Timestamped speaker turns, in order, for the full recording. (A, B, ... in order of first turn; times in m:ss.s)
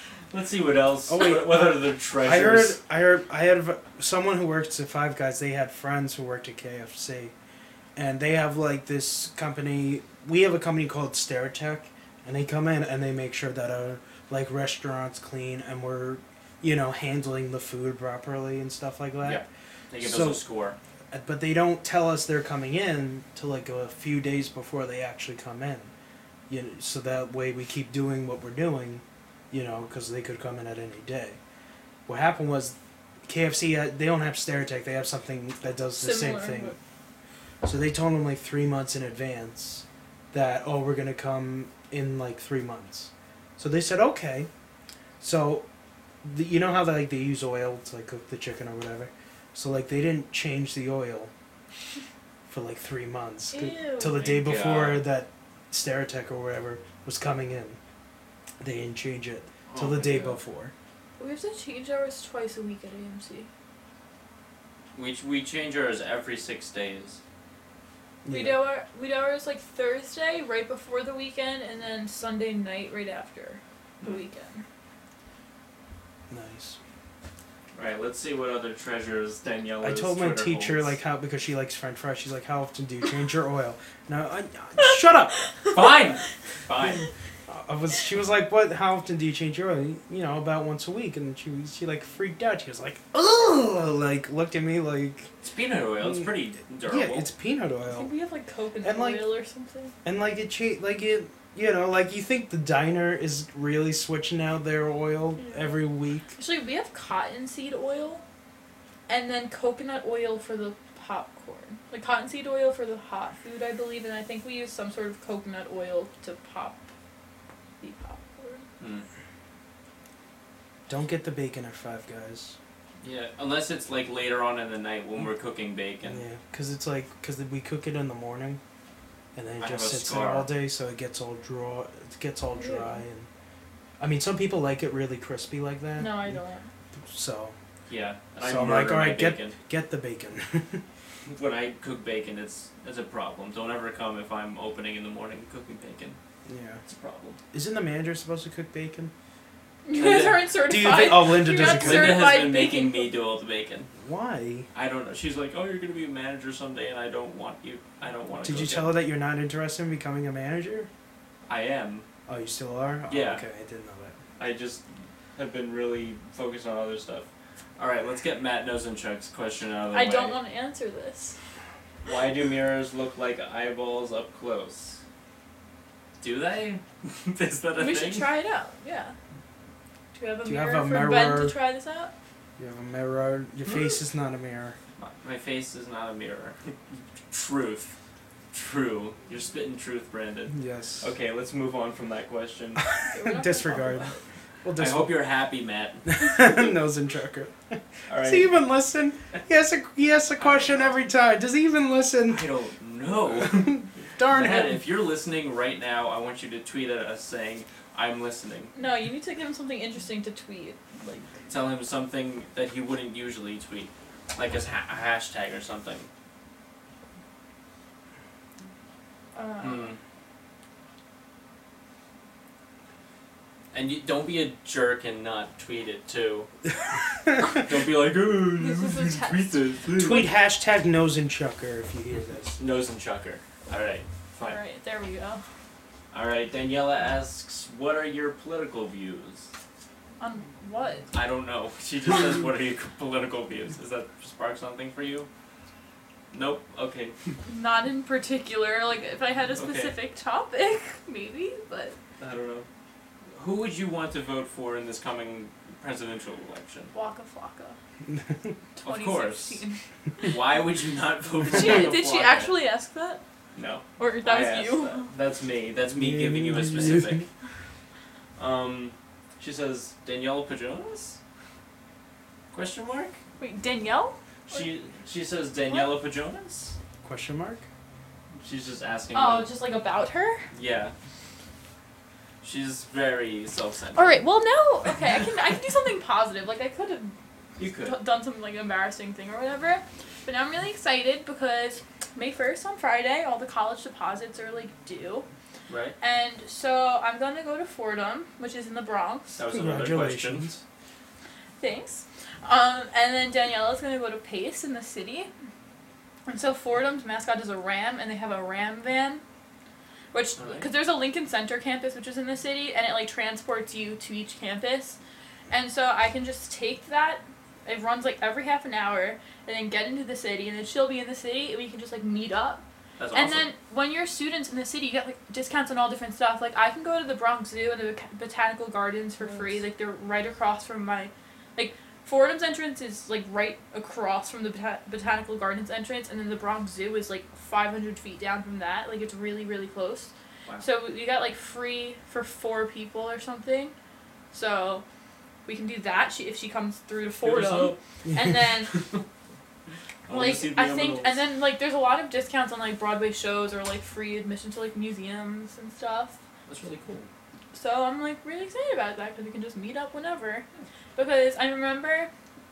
0:00.3-0:02.8 A
0:01.1-0:07.3 B
0:08.0-0:19.4 B
0:19.2-0:20.8 A
0:20.0-0:20.4 B
0:21.1-0:25.9 B
0:26.5-0:31.4 B
0:32.1-0:32.8 B
0:33.3-0:36.8 B
0:36.0-0:36.8 C
0:37.6-0:44.5 B
0:45.2-0:45.6 B
0:46.2-0:51.3 B
0:52.5-0:57.8 B
0:53.5-0:54.3 C
0:54.2-0:55.0 A
0:58.6-1:00.7 B
0:59.7-1:00.4 A
1:01.2-1:03.5 C
1:05.0-1:07.2 A
1:08.2-1:08.6 B
1:08.3-1:14.6 C
1:16.3-1:16.8 B
1:17.7-1:20.9 A
1:19.8-1:25.4 B
1:25.7-1:27.1 A
1:27.5-1:35.3 B
1:35.4-1:37.3 A
1:36.0-1:38.1 B
1:37.9-1:40.0 C
1:38.8-1:39.3 B
1:40.0-1:46.3 B
1:45.4-1:45.7 C
1:46.4-1:48.2 C
1:49.1-1:56.9 C
1:57.8-1:58.7 C
1:58.8-1:59.1 A
2:00.9-2:02.6 B
2:03.0-2:06.2 A
2:06.0-2:08.6 B
2:09.4-2:13.3 B
2:09.6-2:10.5 A
2:12.6-2:13.0 C
2:14.0-2:16.4 B
2:16.0-2:16.7 C
2:17.0-2:17.6 B
2:17.9-2:19.6 A
2:18.4-2:20.8 B
2:21.3-2:26.2 A
2:26.5-2:26.8 B
2:26.9-2:27.4 A
2:27.5-2:29.1 B
2:29.8-2:33.1 C
2:29.9-2:30.5 A
2:30.7-2:32.3 B
2:31.4-2:33.9 A
2:34.0-2:34.7 B
2:34.7-2:39.0 A
2:38.4-2:40.9 B
2:41.5-2:42.1 A
2:42.3-2:44.2 B
2:43.1-2:43.4 A
2:44.4-2:50.4 A
2:49.9-2:51.4 C
2:52.0-2:55.0 A
2:56.2-2:58.3 A
2:57.8-2:59.2 C
3:00.1-3:02.1 C
3:00.4-3:01.6 B
3:02.6-3:04.8 B
3:05.0-3:08.0 A
3:08.5-3:12.9 A
3:10.5-3:11.1 B
3:13.0-3:14.2 C
3:13.1-3:14.1 B
3:14.6-3:15.2 B
3:14.8-3:16.1 A
3:16.1-3:22.4 B
3:18.1-3:18.5 A
3:20.4-3:21.0 A
3:22.3-3:28.7 A
3:23.4-3:24.8 B
3:28.8-3:31.3 C
3:31.5-3:36.1 A
3:39.4-3:40.0 C
3:39.6-3:40.0 A
3:43.7-3:46.5 A
3:47.5-3:50.3 A
3:48.6-3:49.5 C
3:50.0-3:52.6 B
3:52.6-3:54.6 A
3:54.4-3:55.4 C
3:56.1-3:59.5 A
4:00.2-4:01.1 C
4:01.1-4:05.3 A
4:06.3-4:07.2 A
4:07.5-4:12.0 C
4:09.6-4:10.0 A
4:12.2-4:12.7 A
4:13.4-4:16.9 A
4:16.9-4:17.8 C
4:18.1-4:18.6 B
4:18.8-4:20.3 C
4:18.8-4:19.6 A
4:20.2-4:22.5 A
4:21.5-4:23.2 C
4:23.6-4:27.3 A
4:24.0-4:25.1 C
4:26.0-4:27.3 B
4:28.4-4:31.2 A
4:32.5-4:33.2 A
4:33.4-4:34.7 C
4:34.5-4:36.8 A
4:35.7-4:35.9 C
4:37.0-4:37.7 B
4:38.4-4:39.5 A
4:39.1-4:40.5 C
4:40.5-4:40.9 A
4:42.4-4:44.2 A
4:44.0-4:47.2 C
4:47.6-4:48.0 A
4:47.8-4:55.3 C
4:55.7-4:56.0 A
4:56.0-4:59.4 C
4:59.4-5:00.6 A
4:59.5-5:00.6 B
5:01.6-5:05.3 C
5:06.3-5:09.2 C
5:10.1-5:15.0 C
5:10.4-5:10.7 A
5:15.5-5:43.7 C
5:23.0-5:23.5 A
5:44.3-5:44.8 C
5:45.5-5:48.7 C
5:47.2-5:47.8 A
5:48.0-5:48.4 B
5:48.7-5:49.0 A
5:50.1-5:51.2 A
5:50.1-5:56.2 C
5:56.5-5:57.1 A
5:57.5-6:02.1 C